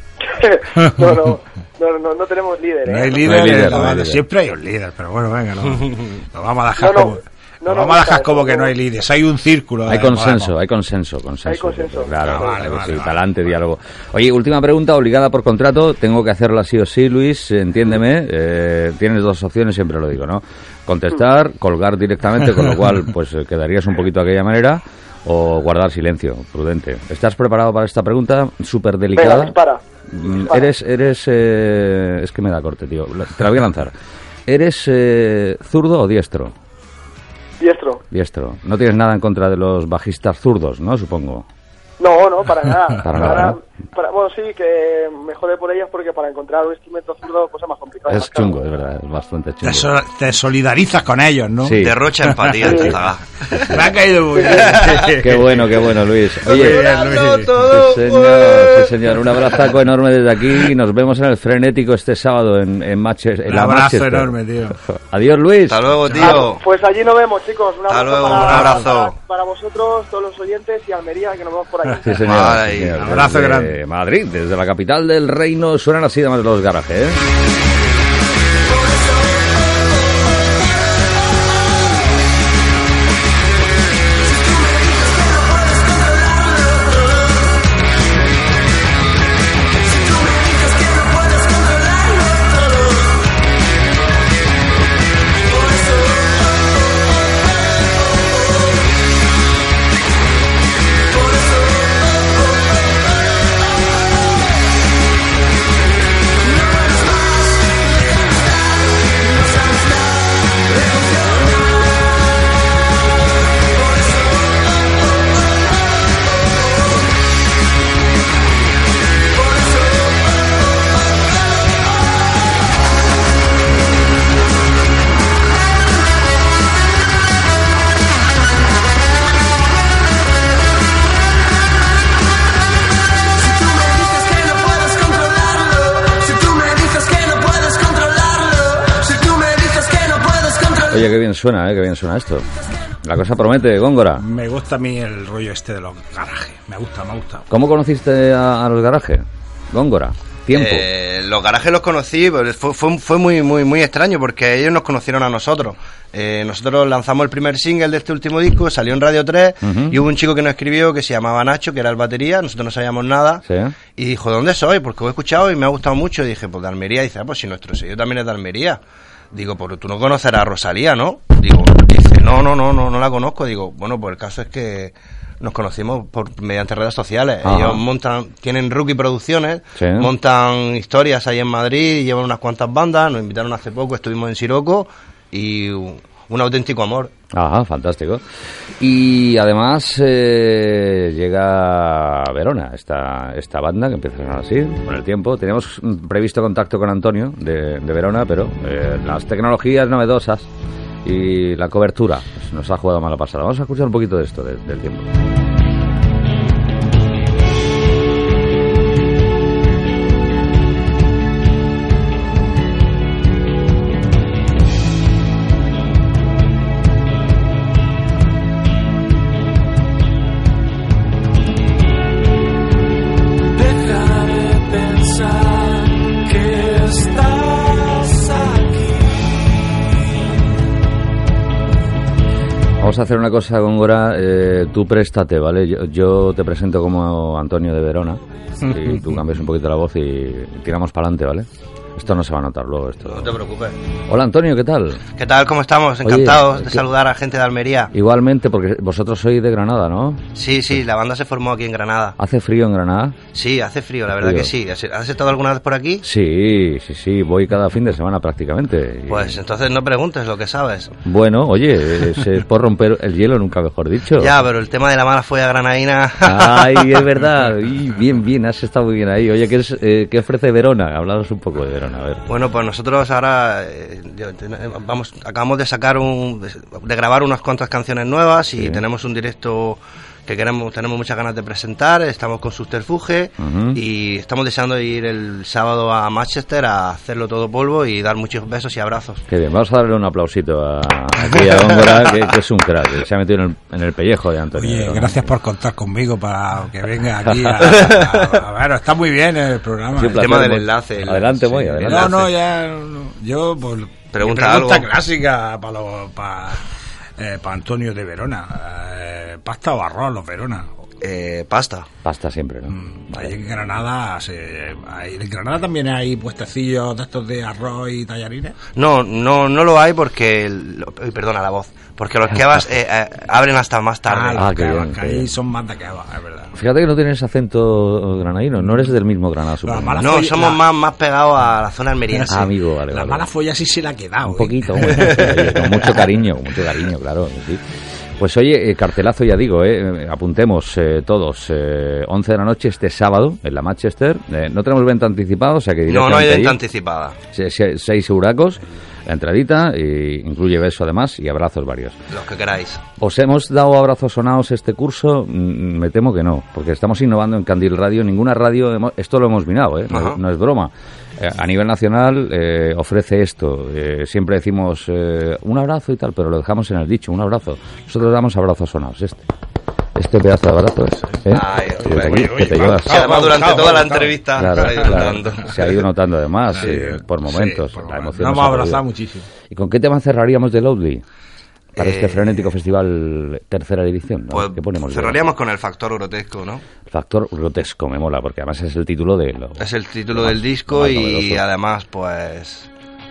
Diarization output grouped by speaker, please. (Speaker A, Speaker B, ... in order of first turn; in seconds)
Speaker A: 0.2-3.8, 6.8-8.7, 11.4-12.7, 29.1-30.7, 37.6-38.0, 42.0-48.5, 52.6-53.0, 54.3-54.8, 66.2-72.3
Speaker B: 0.8-1.3, 2.8-10.5, 12.2-13.2, 49.6-52.6, 53.6-57.5, 63.5-64.8, 66.1-66.4, 68.3-68.8, 72.9-73.8, 144.2-147.5, 238.7-239.0, 291.3-292.1, 294.5-300.2, 301.8-306.6, 307.2-310.7, 312.7-318.6, 324.1-326.5, 329.6-330.6, 332.9-336.1, 371.7-375.2, 376.5-379.3
Speaker C: 3.2-4.2, 9.9-29.6, 30.1-33.9, 34.5-36.5, 38.1-41.5, 43.0-43.6, 48.1-49.9, 51.6-52.0, 52.6-53.0, 55.1-56.8, 57.6-64.3, 64.8-65.8, 72.0-77.2, 140.7-142.5, 143.0-144.2, 147.5-150.9, 159.6-160.0, 163.4-163.7, 177.4-177.8, 179.8-180.1, 187.3-188.2, 188.8-200.5, 201.0-205.1, 232.8-243.4, 244.1-245.0, 246.0-246.8, 247.9-250.3, 252.2-253.2, 254.2-254.5, 256.0-259.4, 261.0-264.3, 266.2-272.2, 283.4-283.8, 289.3-295.3, 297.3-297.6, 299.9-302.2, 312.0-313.4, 324.3-325.3, 326.5-330.2, 332.3-333.2, 334.3-337.6, 338.2-346.6, 347.3-352.0, 353.0-369.3, 369.9-373.2, 374.4-378.8, 379.5-381.0, 381.8-385.2, 386.9-391.4
Speaker D: 51.8-53.8, 54.6-55.1, 56.5-59.0, 65.7-66.6, 67.9-69.1, 72.2-73.0, 150.5-163.4, 163.9-168.8, 169.3-187.1, 243.1-243.8, 245.2-247.9, 250.3-252.2, 253.3-256.0, 259.1-260.9, 264.2-267.1, 272.3-289.2, 300.1-302.3, 304.1-304.9, 311.0-311.9, 318.8-324.5, 330.0-332.5, 345.9-347.2, 352.1-352.8, 359.9-360.2, 371.3-375.7, 381.8-382.5, 384.3-386.6, 389.6-392.7
Speaker E: 224.0-225.4, 226.4-228.3